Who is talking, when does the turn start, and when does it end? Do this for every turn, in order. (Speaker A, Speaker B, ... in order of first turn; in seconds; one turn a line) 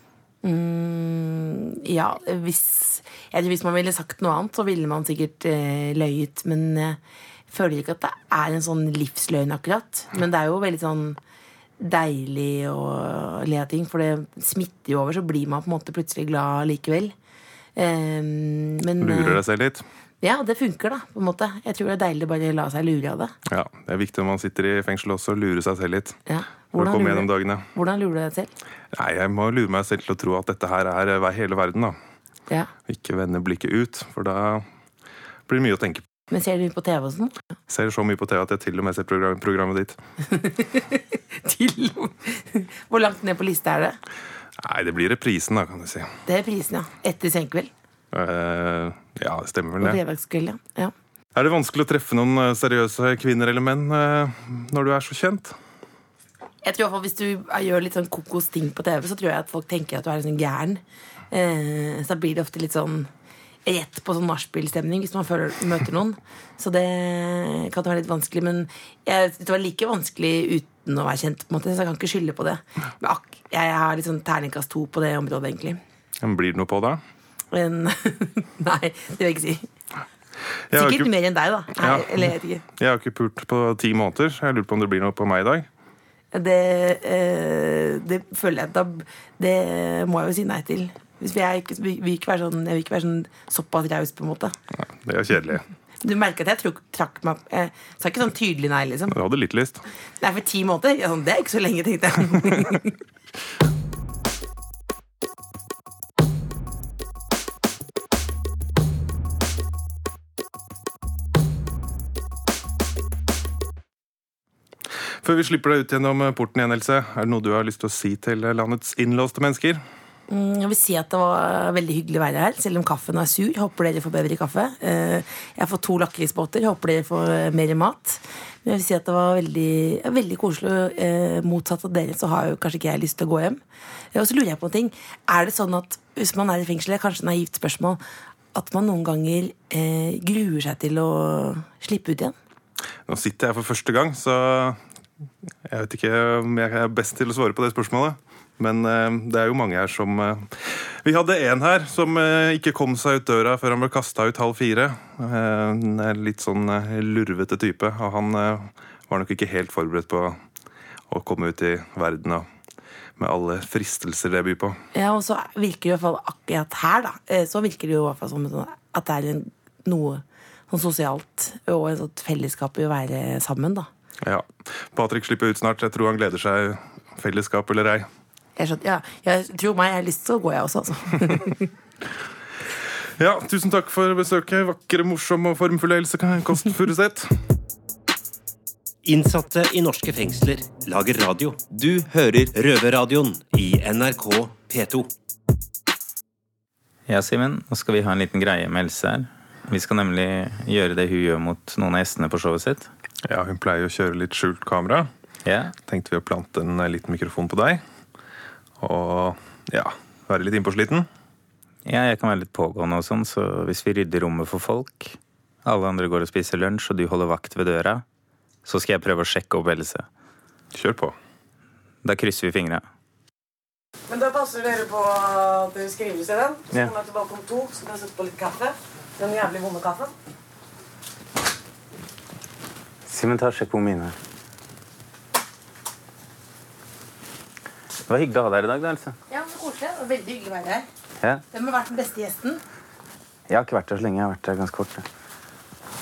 Speaker A: 0.4-7.0
Speaker A: 7.5-11.2
Speaker A: 11.8-17.1
Speaker A: 17.8-19.4
Speaker B: 19.0-19.8
Speaker A: 20.2-23.3
Speaker B: 23.5-26.2
Speaker A: 26.3-28.5
Speaker B: 26.8-27.6
Speaker B: 28.9-31.9
Speaker B: 32.9-34.6
Speaker B: 35.5-36.0
Speaker A: 36.3-37.4
Speaker B: 37.7-40.0
Speaker A: 40.2-44.0
Speaker B: 44.6-46.1
Speaker A: 46.2-47.7
Speaker B: 48.1-50.0
Speaker A: 49.8-50.9
Speaker B: 51.3-55.5
Speaker A: 56.6-63.1
Speaker A: 63.6-75.8
Speaker B: 76.2-77.0
Speaker A: 77.5-79.7
Speaker B: 80.7-81.1
Speaker A: 80.7-82.6
Speaker B: 81.8-82.2
Speaker B: 82.8-85.7
Speaker A: 86.3-94.5
Speaker B: 94.8-95.6
Speaker A: 96.0-99.2
Speaker B: 99.1-99.8
Speaker A: 100.2-102.9
Speaker B: 115.2-119.8
Speaker A: 120.3-133.6
Speaker A: 134.1-138.0
Speaker A: 138.5-142.3
Speaker B: 143.1-144.8
Speaker B: 145.7-160.4
Speaker B: 161.1-162.5
Speaker B: 163.2-164.8
Speaker A: 164.9-173.9
Speaker B: 174.2-178.1
Speaker A: 178.6-181.7
Speaker B: 183.2-187.3
Speaker C: 189.0-195.1
Speaker D: 197.1-202.9
Speaker B: 203.3-205.1
Speaker D: 205.4-205.7
Speaker B: 205.8-207.8
Speaker B: 208.8-211.1
Speaker D: 211.8-218.0
Speaker D: 218.6-220.1
Speaker B: 220.7-221.1
Speaker D: 222.0-222.8
Speaker E: 224.1-230.1
Speaker D: 233.1-234.2
Speaker D: 238.1-239.2
Speaker A: 239.3-240.8
Speaker A: 241.5-242.6
Speaker D: 243.5-245.0